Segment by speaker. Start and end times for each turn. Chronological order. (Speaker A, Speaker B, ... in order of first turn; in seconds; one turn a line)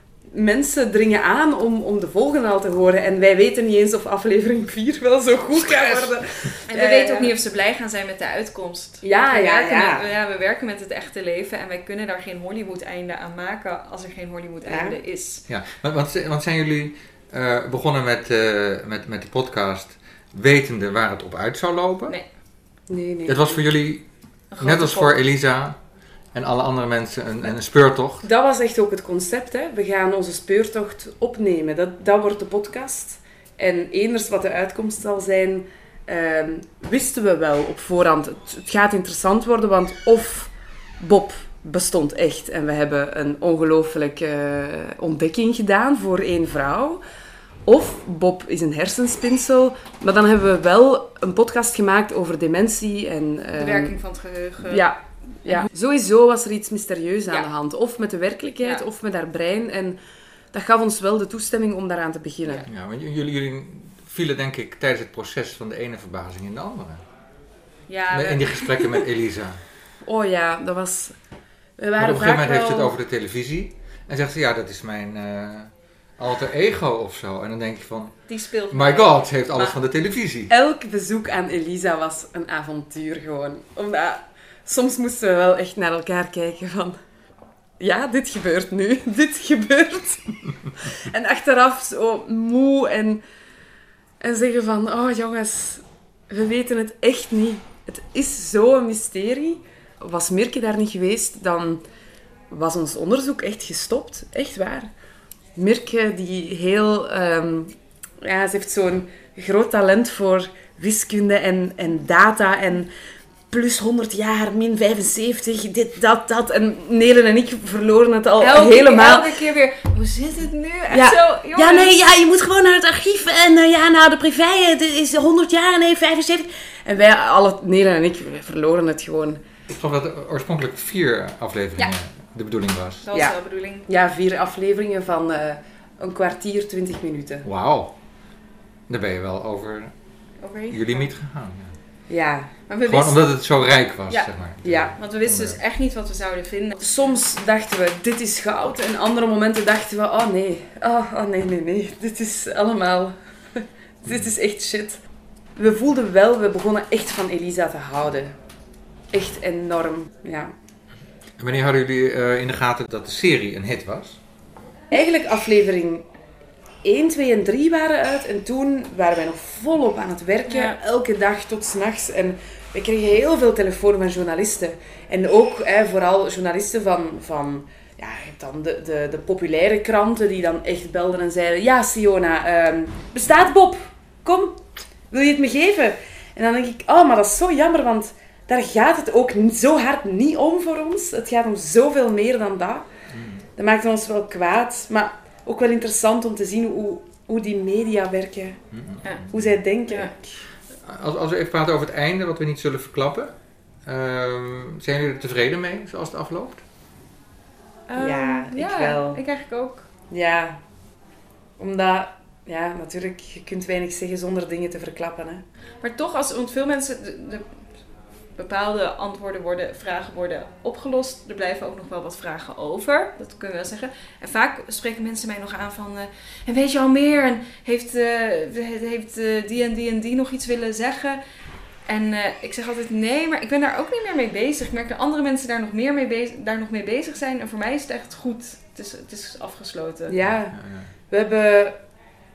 Speaker A: 0.3-7.3
Speaker B: 5.5-6.1
Speaker C: 6.7-15.4
Speaker A: 9.0-10.1
Speaker A: 14.7-15.0
Speaker B: 15.5-22.1
Speaker A: 22.9-23.6
Speaker B: 23.2-24.1
Speaker C: 24.5-25.2
Speaker B: 24.6-25.8
Speaker B: 26.3-28.2
Speaker A: 28.2-47.0
Speaker A: 47.6-54.0
Speaker C: 53.5-54.9
Speaker A: 54.7-60.0
Speaker A: 60.5-62.6
Speaker B: 62.7-67.0
Speaker C: 67.9-69.0
Speaker B: 68.1-69.6
Speaker A: 70.0-71.1
Speaker A: 71.8-72.9
Speaker B: 72.0-78.1
Speaker C: 78.3-79.8
Speaker B: 78.7-80.5
Speaker A: 80.5-87.0
Speaker A: 87.8-90.3
Speaker A: 90.9-93.2
Speaker A: 94.2-101.8
Speaker A: 102.5-104.9
Speaker A: 105.5-112.9
Speaker A: 113.5-119.4
Speaker C: 118.4-122.0
Speaker A: 120.9-129.4
Speaker B: 129.7-133.0
Speaker C: 133.0-133.9
Speaker A: 133.9-137.4
Speaker B: 137.4-137.9
Speaker B: 138.9-139.9
Speaker C: 140.4-141.1
Speaker B: 140.7-141.7
Speaker A: 142.1-142.5
Speaker C: 142.7-143.3
Speaker B: 142.8-145.6
Speaker A: 144.6-144.9
Speaker C: 144.9-146.9
Speaker A: 146.8-155.0
Speaker A: 155.6-158.3
Speaker A: 159.1-160.5
Speaker B: 161.4-164.2
Speaker A: 164.9-166.0
Speaker A: 166.8-192.8
Speaker C: 170.5-170.8
Speaker B: 193.1-193.4
Speaker A: 193.6-198.6
Speaker B: 198.7-199.2
Speaker A: 199.3-200.3
Speaker C: 199.9-200.1
Speaker B: 200.8-203.3
Speaker B: 203.8-206.6
Speaker C: 207.9-209.8
Speaker A: 208.0-209.2
Speaker A: 210.1-210.6
Speaker A: 211.6-215.4
Speaker C: 215.8-217.4
Speaker C: 218.3-231.2
Speaker C: 231.8-240.1
Speaker A: 240.1-240.6
Speaker B: 240.5-240.9
Speaker A: 241.1-241.8